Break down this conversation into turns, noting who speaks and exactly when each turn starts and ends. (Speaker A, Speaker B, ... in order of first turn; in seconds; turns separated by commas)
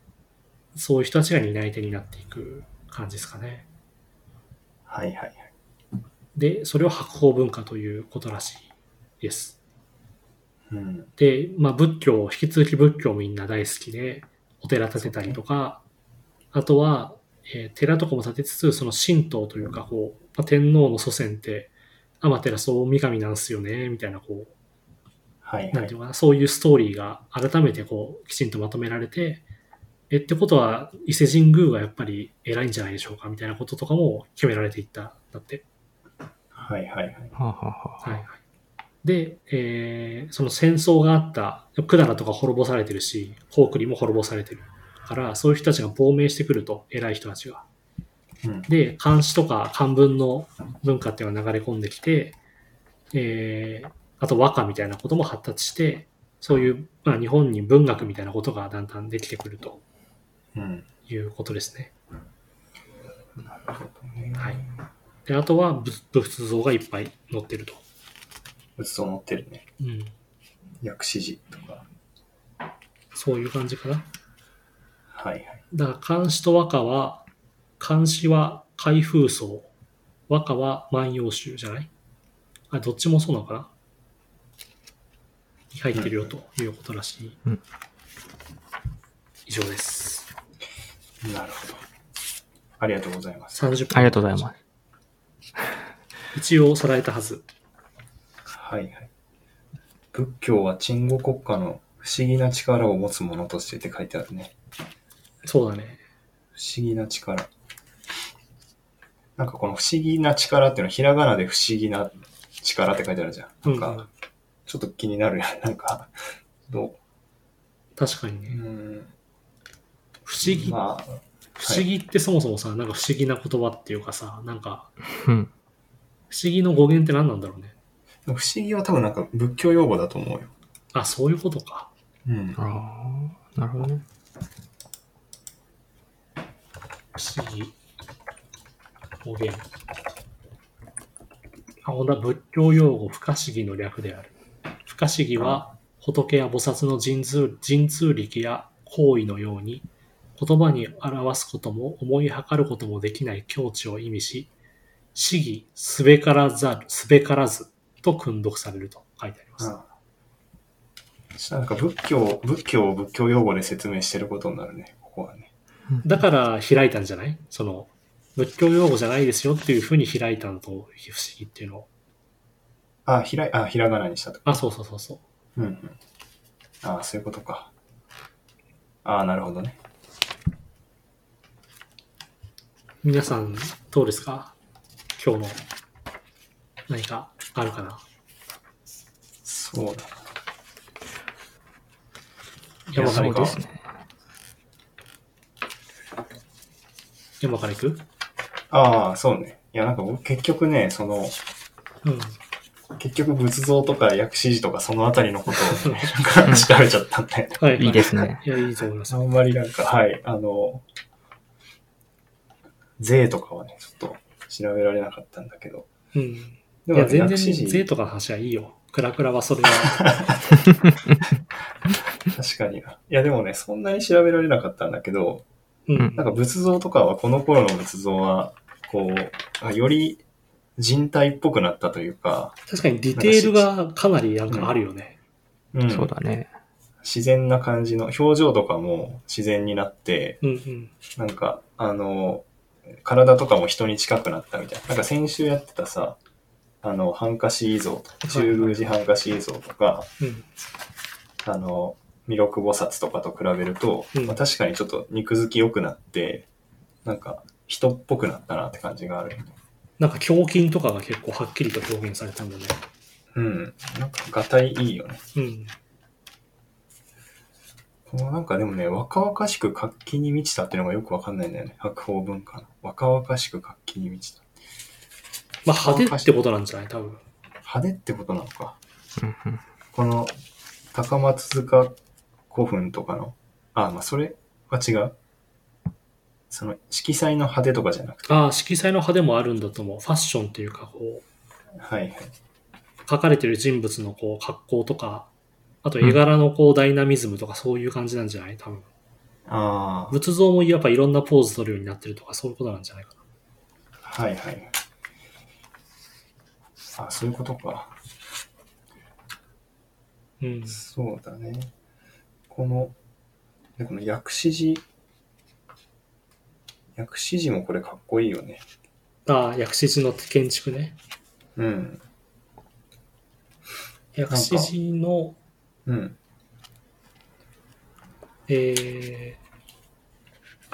Speaker A: 0.8-3.7, Speaker B: 4.9-5.5, Speaker A: 6.3-8.7, Speaker A: 9.2-9.6, Speaker B: 10.7-11.1, Speaker A: 11.2-15.8, Speaker B: 15.0-15.4, Speaker A: 16.5-24.5, Speaker B: 25.4-25.9, Speaker A: 25.7-29.4, Speaker A: 30.1-35.6, Speaker B: 36.5-37.3, Speaker C: 37.4-38.2, Speaker A: 38.0-38.4, Speaker A: 39.0-47.7, Speaker B: 48.4-48.7, Speaker A: 48.7-52.4, Speaker A: 53.1-59.8, Speaker B: 60.5-60.9, Speaker A: 61.1-61.9, Speaker B: 63.4-64.7, Speaker A: 65.3-67.8, Speaker B: 68.8-69.6, Speaker A: 69.8-70.1, Speaker B: 70.8-71.9, Speaker A: 73.1-74.1, Speaker B: 75.1-75.6, Speaker A: 75.7-77.2, Speaker A: 77.8-79.7, Speaker A: 80.3-81.9, Speaker A: 82.7-83.7, Speaker A: 85.7-87.4, Speaker B: 85.9-86.3, Speaker A: 89.5-90.3, Speaker B: 91.2-91.8, Speaker B: 92.8-93.7, Speaker A: 93.5-94.5, Speaker C: 93.9-94.5, Speaker A: 96.3-97.5, Speaker B: 98.5-99.1, Speaker B: 100.1-104.5, Speaker A: 105.4-106.0, Speaker B: 106.5-107.5, Speaker B: 109.4-114.0, Speaker A: 113.7-114.1, Speaker B: 114.7-116.1, Speaker B: 116.7-117.0, Speaker A: 118.0-118.6, Speaker B: 118.5-119.1, Speaker A: 120.3-120.8, Speaker B: 120.4-121.9, Speaker A: 121.6-124.9, Speaker C: 125.2-125.5, Speaker A: 126.3-127.7, Speaker B: 128.3-130.5, Speaker A: 130.9-131.9, Speaker B: 132.3-132.6, Speaker C: 132.6-134.0, Speaker A: 137.2-137.8, Speaker A: 139.2-139.7, Speaker A: 141.8-144.3, Speaker A: 144.9-149.9, Speaker B: 145.4-145.7, Speaker A: 150.4-154.5, Speaker A: 155.2-159.7, Speaker B: 159.6-159.9, Speaker B: 161.4-165.5, Speaker A: 166.0-171.9, Speaker B: 173.1-174.6, Speaker A: 174.5-175.2, Speaker B: 175.6-176.0, Speaker B: 176.8-177.7, Speaker B: 179.1-179.8, Speaker A: 183.0-184.6, Speaker A: 185.2-185.6, Speaker A: 186.9-188.0, Speaker B: 189.4-190.2, Speaker A: 192.9-193.6, Speaker B: 192.9-193.6, Speaker C: 193.0-193.7, Speaker A: 197.4-198.0, Speaker B: 198.7-201.4, Speaker A: 202.0-202.4, Speaker B: 203.0-208.3, Speaker A: 205.7-206.1, Speaker A: 207.6-209.2, Speaker C: 207.8-208.4, Speaker B: 209.1-210.8, Speaker B: 213.0-215.9, Speaker A: 216.1-220.1, Speaker B: 216.9-217.9, Speaker B: 219.8-220.5, Speaker B: 221.9-225.4, Speaker A: 225.9-226.3, Speaker B: 226.2-230.2, Speaker B: 230.8-232.6, Speaker A: 232.7-235.2, Speaker B: 233.1-233.7, Speaker B: 235.7-236.1, Speaker C: 235.9-236.5, Speaker B: 237.0-240.4, Speaker A: 240.4-240.9, Speaker B: 241.2-246.2, Speaker B: 246.8-250.1, Speaker A: 248.2-248.8, Speaker A: 250.2-250.5, Speaker B: 251.4-256.5, Speaker B: 257.0-259.6, Speaker A: 260.0-262.8, Speaker B: 263.3-265.2, Speaker A: 265.4-265.7, Speaker B: 268.1-274.5, Speaker A: 275.7-277.2, Speaker B: 275.8-276.3, Speaker B: 277.6-278.8, Speaker C: 279.2-279.6, Speaker B: 279.9-280.3, Speaker B: 280.9-282.0, Speaker B: 282.5-285.1, Speaker B: 286.5-288.4, Speaker A: 288.3-291.2, Speaker B: 291.8-292.3, Speaker A: 293.1-295.3, Speaker A: 295.8-298.9, Speaker B: 299.5-300.2, Speaker A: 300.1-303.2, Speaker B: 304.0-304.7, Speaker B: 306.9-307.9, Speaker A: 310.4-310.8, Speaker B: 310.7-311.7, Speaker B: 312.5-312.9, Speaker B: 313.8-314.9, Speaker B: 317.0-318.6, Speaker A: 319.3-321.0, Speaker B: 321.6-322.0, Speaker A: 324.1-325.4, Speaker B: 324.3-324.7, Speaker B: 325.9-326.2, Speaker A: 328.5-329.4